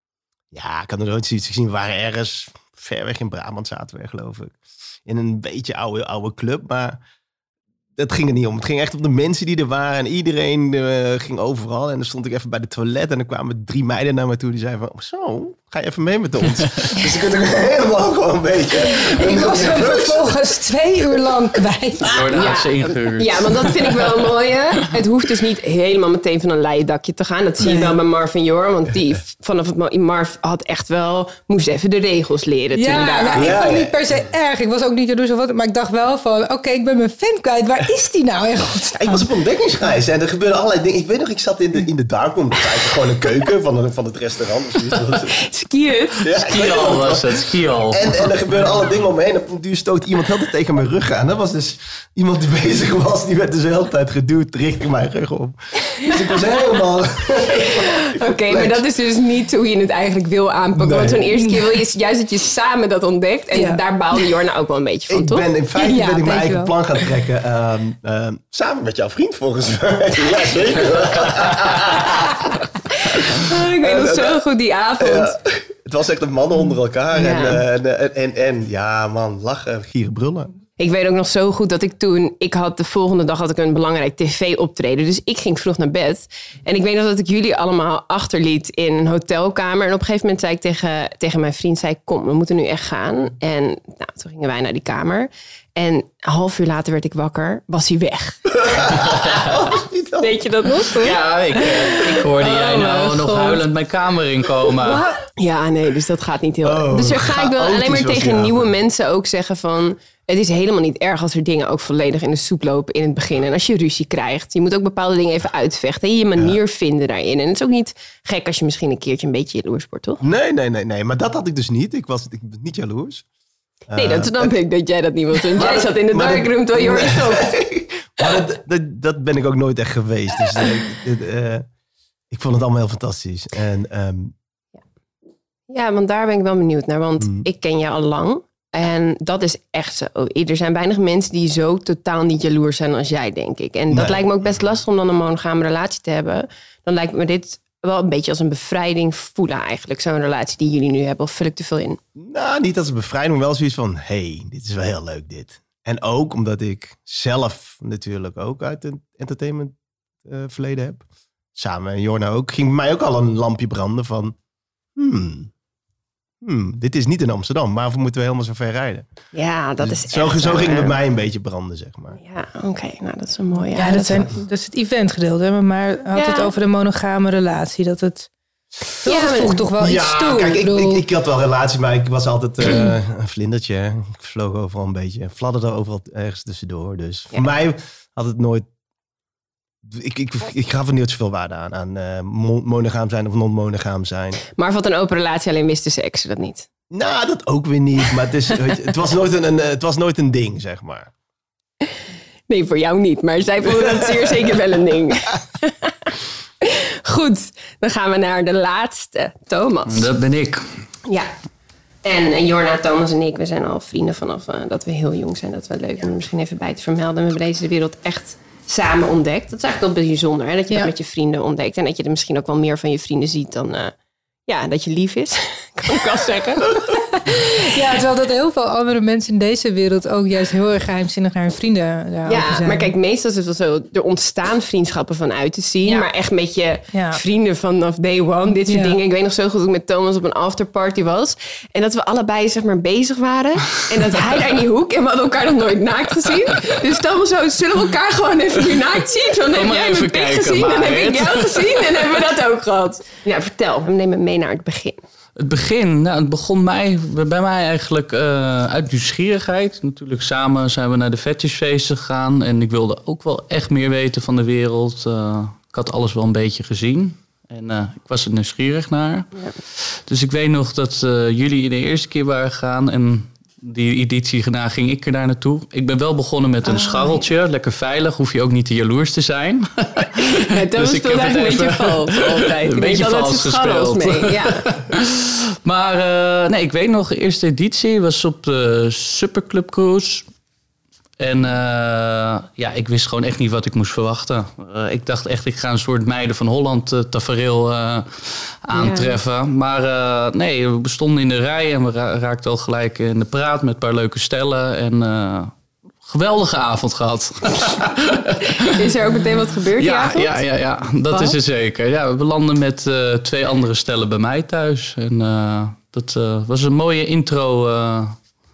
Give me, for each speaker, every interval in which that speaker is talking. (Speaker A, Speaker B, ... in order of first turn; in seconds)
Speaker A: 0.5-7.0, 8.0-20.3, 33.3-34.2, 38.9-45.4, 46.2-58.9, 60.7-61.4, 65.1-74.4, 75.0-80.5, 98.6-101.1, 106.6-108.7, 120.2-123.2, 123.9-124.5, 125.5-131.7, 132.3-134.4, 137.2-137.5, 143.9-144.2, 152.2-161.0, 161.6-164.4, 165.0-165.5, 166.4-169.1, 169.8-172.2, 179.8-188.7, 189.8-194.4, 196.9-201.1, 203.7-204.0
Speaker B: 16.6-16.9, 22.0-24.3, 46.2-48.3, 100.9-105.0, 209.9-210.6, 249.5-252.2, 255.4-290.3, 291.2-305.5, 306.0-308.9, 309.8-318.2
Speaker C: 18.8-22.2, 27.6-27.9, 32.7-39.3, 63.5-63.8, 65.8-66.8, 173.7-178.3, 179.0-181.0, 227.4-232.9, 236.9-237.2, 238.6-239.0
Speaker D: 22.3-33.6, 45.3-46.2, 57.5-65.5, 72.9-75.4, 77.1-77.6, 80.8-99.0, 100.2-103.6, 104.9-120.2, 123.9-127.5, 135.7-152.0, 169.3-171.0, 172.2-174.4, 176.1-176.5, 179.1-179.6, 194.6-196.7, 202.5-210.1, 212.0-223.9, 224.5-227.5, 232.2-255.0, 276.6-277.3, 280.1-284.6, 298.7-299.2, 308.6-310.4